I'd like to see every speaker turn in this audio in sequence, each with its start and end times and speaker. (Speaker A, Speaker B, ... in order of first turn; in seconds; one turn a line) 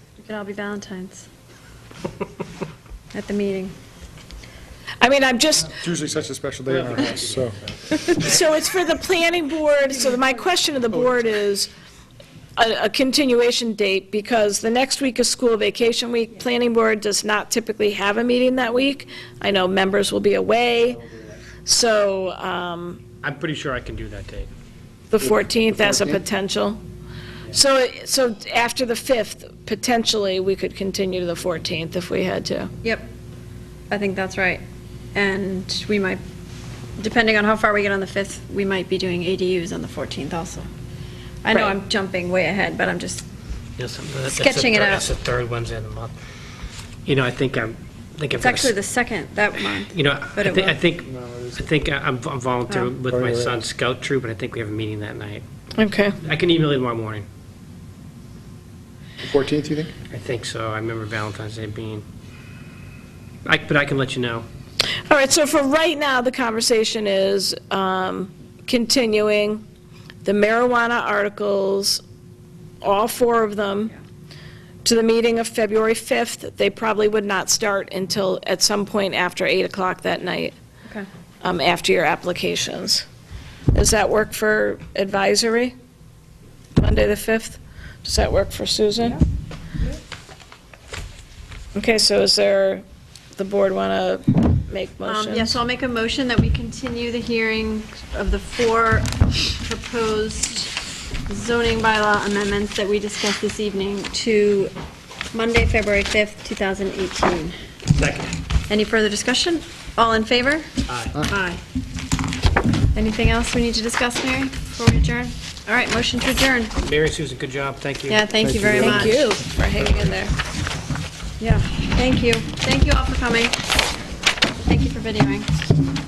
Speaker A: 0.2-1.2
Speaker A: 3.1-3.7
Speaker B: 5.0-5.8
Speaker C: 5.8-7.6
Speaker D: 6.7-7.6
Speaker B: 8.1-11.7
Speaker B: 12.6-21.0
Speaker B: 21.6-23.0
Speaker D: 23.2-24.5
Speaker B: 25.1-26.8
Speaker C: 25.2-26.2
Speaker B: 27.5-32.7
Speaker A: 33.9-34.6
Speaker A: 35.1-36.2
Speaker A: 37.0-40.7
Speaker A: 41.4-43.2
Speaker D: 43.8-46.1
Speaker A: 44.3-45.0
Speaker D: 47.0-48.7
Speaker A: 48.3-50.8
Speaker D: 49.9-55.4
Speaker C: 51.0-51.7
Speaker C: 53.0-53.6
Speaker B: 55.8-56.1
Speaker D: 56.2-57.2
Speaker C: 59.2-59.9
Speaker D: 60.1-62.0
Speaker D: 63.4-64.5
Speaker B: 65.1-69.6
Speaker B: 70.2-72.0
Speaker B: 72.8-73.9
Speaker B: 74.8-80.5
Speaker B: 81.4-83.0
Speaker B: 83.7-85.7
Speaker B: 86.8-89.2
Speaker B: 91.7-92.8
Speaker B: 93.3-95.6
Speaker A: 95.0-100.7
Speaker A: 101.3-104.7
Speaker A: 105.3-107.5
Speaker D: 107.9-108.3
Speaker A: 108.7-110.7
Speaker D: 110.9-111.2
Speaker A: 111.3-111.6
Speaker A: 112.9-116.7
Speaker D: 116.8-118.3
Speaker A: 118.1-119.3
Speaker C: 118.4-119.2
Speaker B: 118.8-120.3
Speaker A: 121.4-123.6
Speaker A: 124.6-125.5